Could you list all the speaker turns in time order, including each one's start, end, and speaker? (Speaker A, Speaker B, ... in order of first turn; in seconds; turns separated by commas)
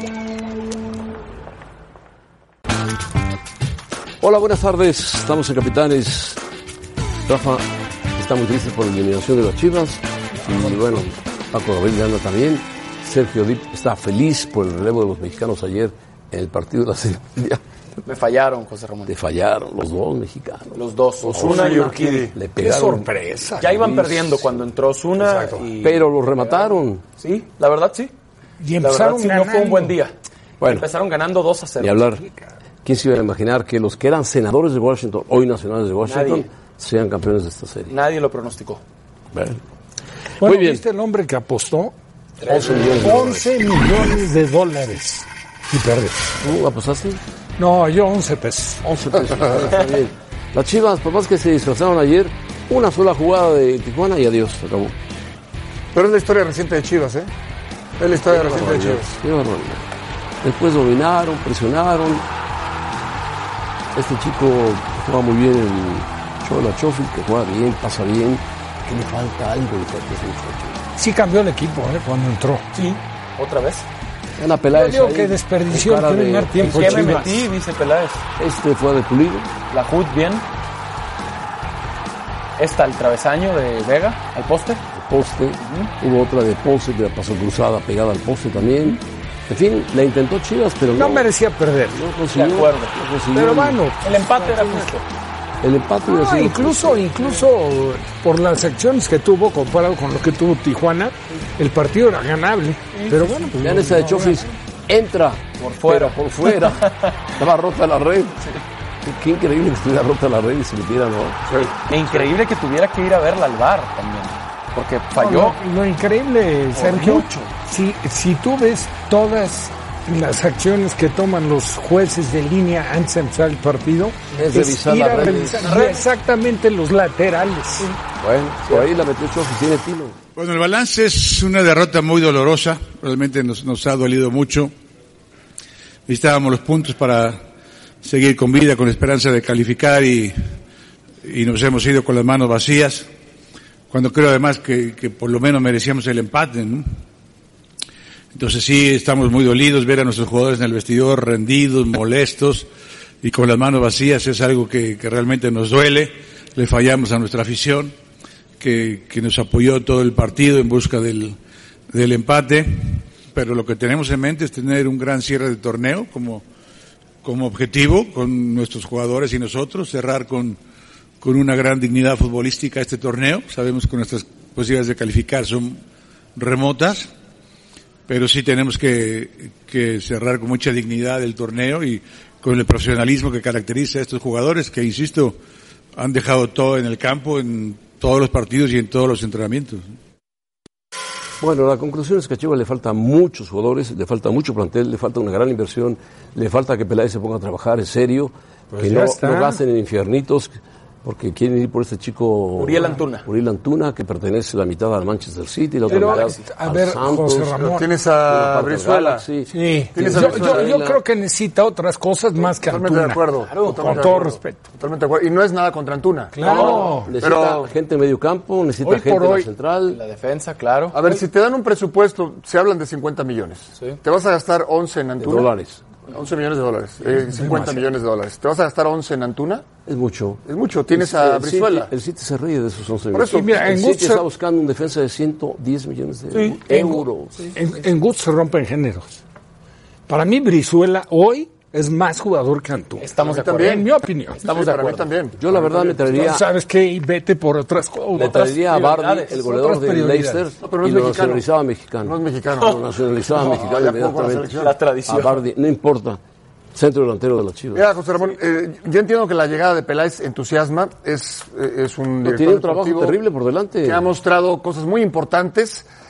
Speaker A: 4.2-6.4, Speaker A: 7.3-17.6, Speaker B: 18.1-19.1, Speaker A: 19.1-23.1, Speaker B: 20.7-22.3, Speaker C: 21.4-22.3, Speaker D: 22.6-24.0, Speaker B: 23.6-28.1, Speaker A: 23.6-24.6, Speaker D: 25.2-25.6, Speaker A: 25.8-27.0, Speaker D: 28.6-30.0, Speaker B: 28.8-32.1, Speaker A: 30.6-30.9, Speaker A: 31.8-32.2, Speaker A: 32.8-38.0, Speaker B: 36.0-36.5, Speaker B: 37.9-38.8, Speaker A: 39.3-39.6, Speaker D: 40.4-41.9, Speaker A: 40.4-40.8, Speaker B: 42.4-42.7, Speaker A: 42.5-43.5, Speaker D: 42.8-46.3, Speaker A: 46.4-47.2, Speaker D: 47.6-48.8, Speaker A: 48.8-55.0, Speaker C: 55.9-57.3, Speaker C: 58.0-59.1, Speaker A: 58.3-59.9, Speaker A: 60.4-62.3, Speaker A: 63.9-70.8, Speaker D: 71.0-72.7, Speaker B: 72.7-73.9, Speaker A: 74.4-77.5, Speaker D: 74.7-77.4, Speaker B: 76.6-78.2, Speaker A: 78.4-79.5, Speaker B: 79.7-80.5, Speaker B: 82.6-84.8, Speaker A: 84.9-91.3, Speaker B: 85.6-85.9, Speaker D: 90.9-92.0, Speaker A: 91.9-93.8, Speaker B: 92.3-93.0, Speaker D: 93.3-94.9, Speaker B: 94.0-95.0, Speaker A: 95.6-97.1, Speaker D: 96.1-104.5, Speaker B: 102.9-103.2, Speaker A: 103.6-108.5, Speaker B: 105.6-107.3, Speaker A: 109.0-111.4, Speaker B: 111.8-115.6, Speaker D: 115.2-127.9, Speaker B: 116.7-117.5, Speaker A: 124.4-125.8, Speaker B: 125.6-126.1, Speaker A: 128.2-130.2, Speaker E: 130.4-134.7, Speaker E: 136.1-137.4, Speaker E: 138.0-140.3, Speaker E: 141.2-143.1, Speaker E: 143.9-146.9, Speaker E: 148.3-152.7, Speaker E: 153.2-157.9, Speaker E: 158.6-161.4, Speaker E: 161.9-166.4, Speaker E: 167.2-170.6, Speaker E: 171.2-175.8, Speaker E: 176.4-177.1, Speaker E: 178.1-185.4, Speaker E: 186.0-189.9, Speaker A: 191.4-200.5, Speaker D: 198.7-199.6, Speaker A: 201.0-211.0, Speaker B: 202.6-203.2, Speaker B: 205.9-206.4, Speaker D: 205.9-207.9, Speaker C: 207.7-209.2, Speaker D: 209.5-214.6, Speaker C: 209.9-210.8, Speaker C: 212.4-217.7, Speaker B: 213.5-214.1, Speaker D: 216.3-217.1, Speaker B: 216.4-216.9, Speaker A: 216.6-220.0, Speaker D: 218.8-219.5, Speaker B: 219.9-221.2, Speaker C: 220.9-225.5, Speaker A: 225.2-225.8, Speaker C: 226.1-229.7, Speaker D: 227.4-227.9, Speaker A: 229.9-237.5, Speaker C: 230.5-231.9, Speaker C: 233.1-233.6, Speaker D: 233.3-234.2, Speaker B: 236.3-237.5, Speaker D: 237.6-239.2, Speaker D: 240.1-244.4, Speaker B: 243.0-245.1, Speaker C: 243.2-243.9, Speaker C: 244.4-246.1, Speaker A: 245.4-246.4, Speaker D: 246.1-248.5, Speaker A: 248.1-254.5, Speaker B: 248.2-249.4, Speaker D: 249.4-250.5, Speaker C: 250.6-251.4, Speaker C: 252.0-252.8, Speaker C: 253.3-254.7, Speaker B: 254.6-255.4, Speaker A: 255.1-256.2, Speaker A: 256.7-257.9, Speaker C: 257.7-263.2, Speaker A: 262.2-264.1, Speaker C: 263.8-265.9